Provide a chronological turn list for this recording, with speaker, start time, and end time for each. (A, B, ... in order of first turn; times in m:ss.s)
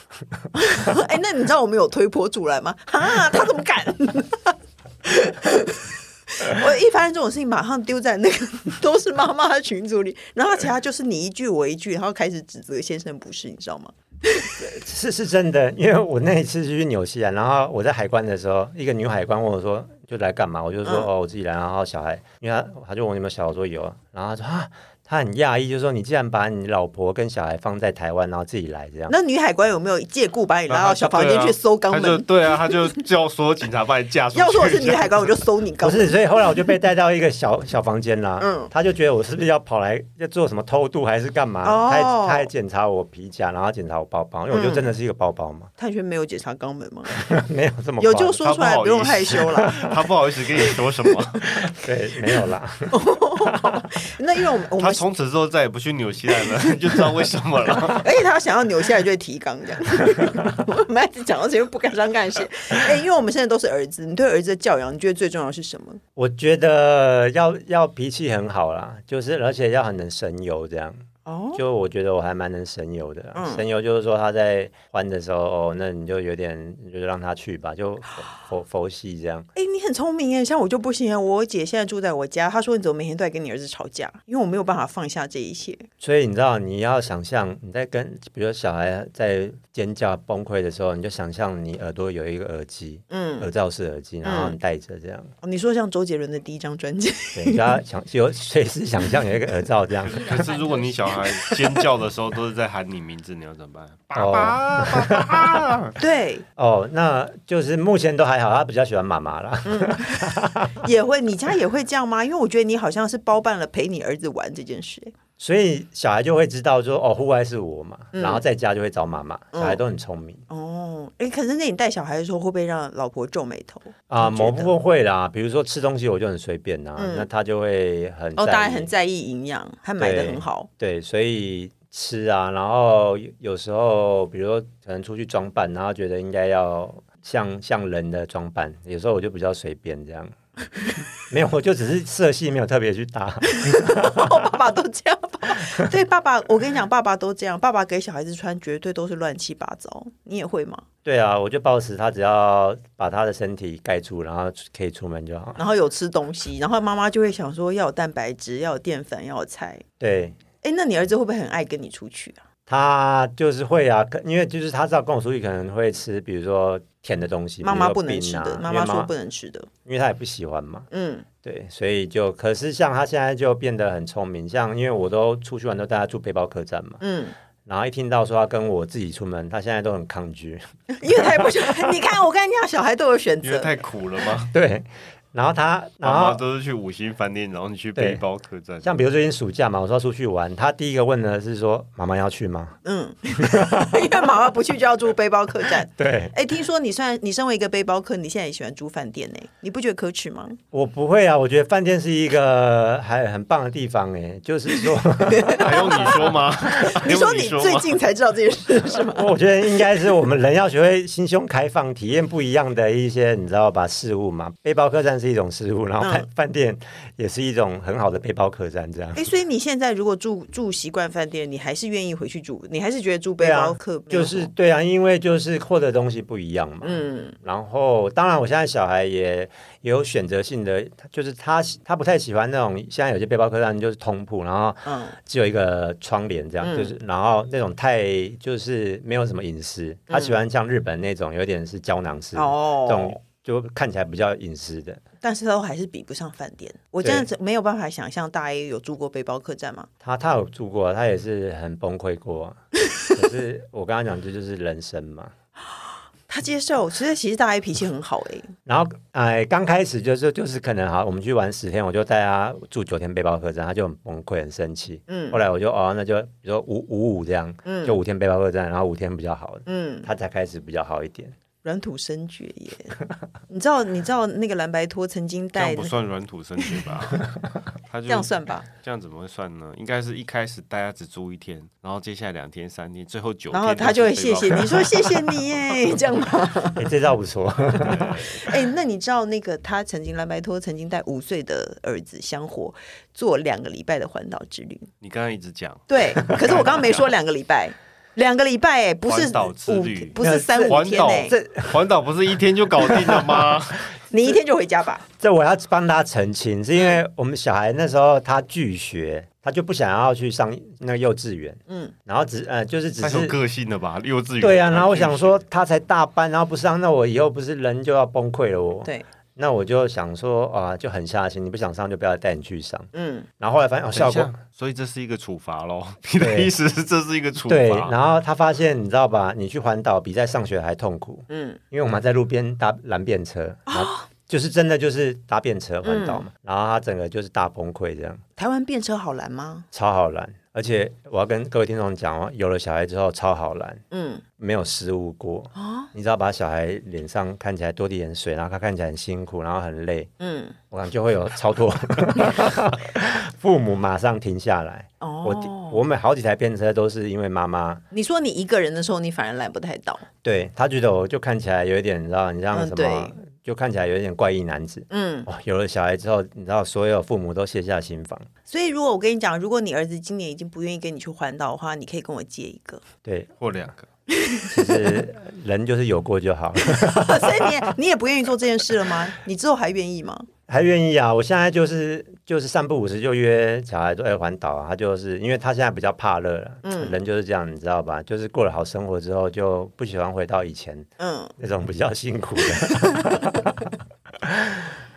0:00.4-0:01.0 A
0:00.6-0:14.6 B
0:14.6-0:29.1 A
0:29.1-0:32.9 B
0:30.7-0:35.4 C
0:34.3-0:36.2 B
0:35.8-0:45.7 A
0:38.4-0:38.7 B
0:41.6-0:42.5 B
0:44.5-0:44.9 B
0:45.8-0:47.2 B
0:47.2-0:48.4 A
0:48.0-0:49.9 B
0:48.4-0:51.5 C
0:51.6-0:52.9 A
0:52.3-0:55.0 B
0:53.5-0:53.8 A
0:54.8-0:58.1 C
0:57.9-1:06.0 B
1:06.2-1:19.5 A
1:11.2-1:11.6 B
1:13.4-1:13.7 B
1:19.6-1:25.9 B
1:26.0-1:35.3 A
1:33.1-1:33.5 B
1:34.2-1:34.6 B
1:35.4-1:37.8 B
1:37.3-1:40.4 A
1:40.1-1:46.0 C
1:44.2-1:45.6 A
1:46.0-1:46.4 B
1:46.6-1:50.9 A
1:49.7-1:55.1 B
1:55.4-2:00.4 A
1:58.1-1:58.4 B
1:59.5-1:59.8 B
2:00.5-2:04.7 B
2:04.1-2:08.9 A
2:07.0-2:07.3 B
2:08.4-2:10.7 B
2:10.0-2:20.3 A
2:21.3-2:24.5 A
2:23.4-2:30.8 B
2:31.0-2:35.6 A
2:35.6-2:39.8 B
2:40.0-2:40.4 A
2:40.6-2:42.4 B
2:42.7-2:49.1 A
2:47.6-2:49.7 B
2:49.8-2:50.9 A
2:50.9-2:51.3 B
2:51.4-2:57.0 A
2:57.0-2:57.3 B
2:57.7-3:00.6 A
3:00.9-3:03.8 B
3:01.2-3:01.6 A
3:03.4-3:04.5 C
3:04.5-3:06.4 A
3:06.0-3:08.9 C
3:08.0-3:08.2 A
3:08.8-3:12.8 A
3:12.8-3:20.6 B
3:13.4-3:14.3 A
3:15.8-3:16.3 A
3:20.7-3:26.3 A
3:25.2-3:29.3 B
3:25.5-3:28.0 C
3:29.1-3:39.2 A
3:36.0-3:36.3 B
3:39.2-3:44.5 B
3:43.4-4:05.0 A
3:46.8-3:47.4 B
3:54.8-3:55.2 B
3:56.6-3:56.9 B
4:00.1-4:00.4 B
4:02.4-4:03.2 B
4:05.2-4:09.9 B
4:10.0-4:12.6 A
4:13.1-4:15.3 A
4:16.3-4:18.5 B
4:18.7-4:31.4 A
4:25.1-4:25.4 B
4:27.6-4:28.0 B
4:29.7-4:30.1 B
4:31.6-4:33.0 B
4:33.5-4:35.9 B
4:35.6-4:45.4 C
4:38.1-4:38.7 B
4:43.5-4:46.9 B
4:46.8-4:48.2 A
4:47.9-4:48.2 C
4:47.9-4:54.9 B
4:55.0-4:57.1 C
4:55.9-5:01.4 B
4:59.1-5:03.9 C
5:00.2-5:01.8 A
5:02.9-5:03.4 A
5:04.1-5:05.0 B
5:05.2-5:13.4 A
5:11.7-5:11.9 B
5:13.0-5:15.4 C
5:14.4-5:24.3 A
5:22.9-5:23.3 B
5:24.0-5:27.9 C
5:26.2-5:26.5 A
5:27.5-5:38.2 A
5:31.3-5:31.6 B
5:33.7-5:34.1 B
5:35.8-5:36.3 B
5:38.4-5:39.7 B
5:39.7-5:43.8 A
5:43.9-5:44.2 B
5:44.4-5:50.1 A
5:45.6-5:45.9 B
5:50.2-5:50.6 B
5:50.7-5:57.8 A
5:55.0-5:55.8 B
5:57.9-6:00.0 B
6:00.2-6:08.3 A
6:02.5-6:03.1 B
6:04.9-6:05.3 B
6:08.5-6:12.8 B
6:13.0-6:13.3 A
6:13.4-6:13.9 C
6:14.1-6:15.0 B
6:14.5-6:17.7 A
6:16.6-6:20.3 B
6:20.5-6:33.4 A
6:26.6-6:27.0 B
6:31.0-6:31.3 B
6:32.7-6:33.2 B
6:34.2-6:34.7 A